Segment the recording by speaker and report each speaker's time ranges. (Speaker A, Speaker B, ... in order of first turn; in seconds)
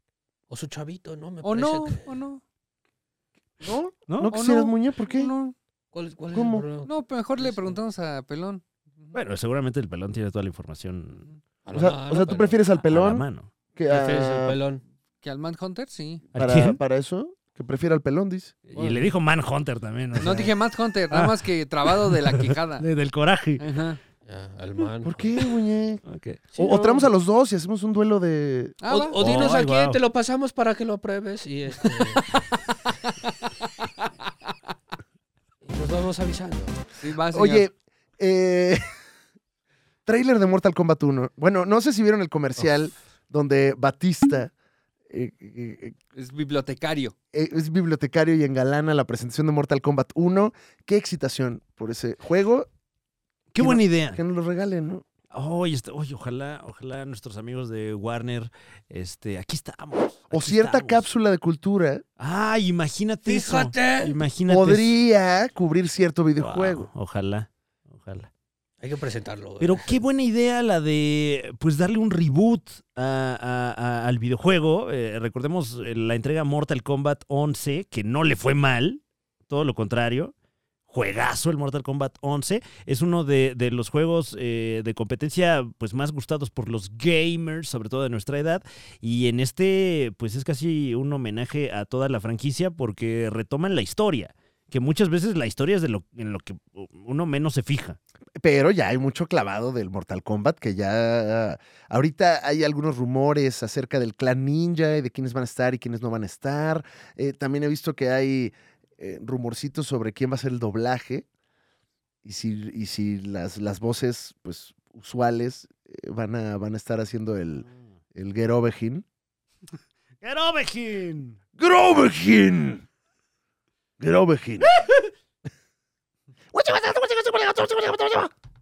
Speaker A: 0.5-2.1, 5.9-7.8, 11.6-12.6, 13.9-14.8, 18.7-19.1, 24.2-25.2, 26.5-27.1, 28.9-32.3, 35.6-36.8, 63.2-64.2, 68.8-70.0
Speaker B: 1.4-2.4, 4.3-5.5, 6.8-8.6, 15.2-16.2, 20.2-22.9, 23.6-24.0, 28.8-29.2, 37.0-37.6, 46.1-47.1
Speaker C: 3.6-5.3, 6.3-6.7, 11.7-14.6, 16.3-18.6, 25.0-26.0, 26.6-28.7, 37.3-38.8, 40.0-44.5, 45.1-46.0, 47.3-52.7, 53.6-55.0, 60.3-62.0, 64.5-66.9, 98.4-111.2, 112.2-119.0, 121.6-122.8, 124.0-124.7, 126.5-128.3
Speaker D: 4.1-4.4, 9.1-11.3, 12.8-13.5, 16.3-16.8, 18.7-20.5, 21.1-23.6, 26.0-26.4, 29.2-30.0, 53.5-54.2, 55.3-61.0, 62.2-65.0, 66.4-68.3, 69.6-80.3, 80.9-98.0, 120.2-121.4, 124.7-125.0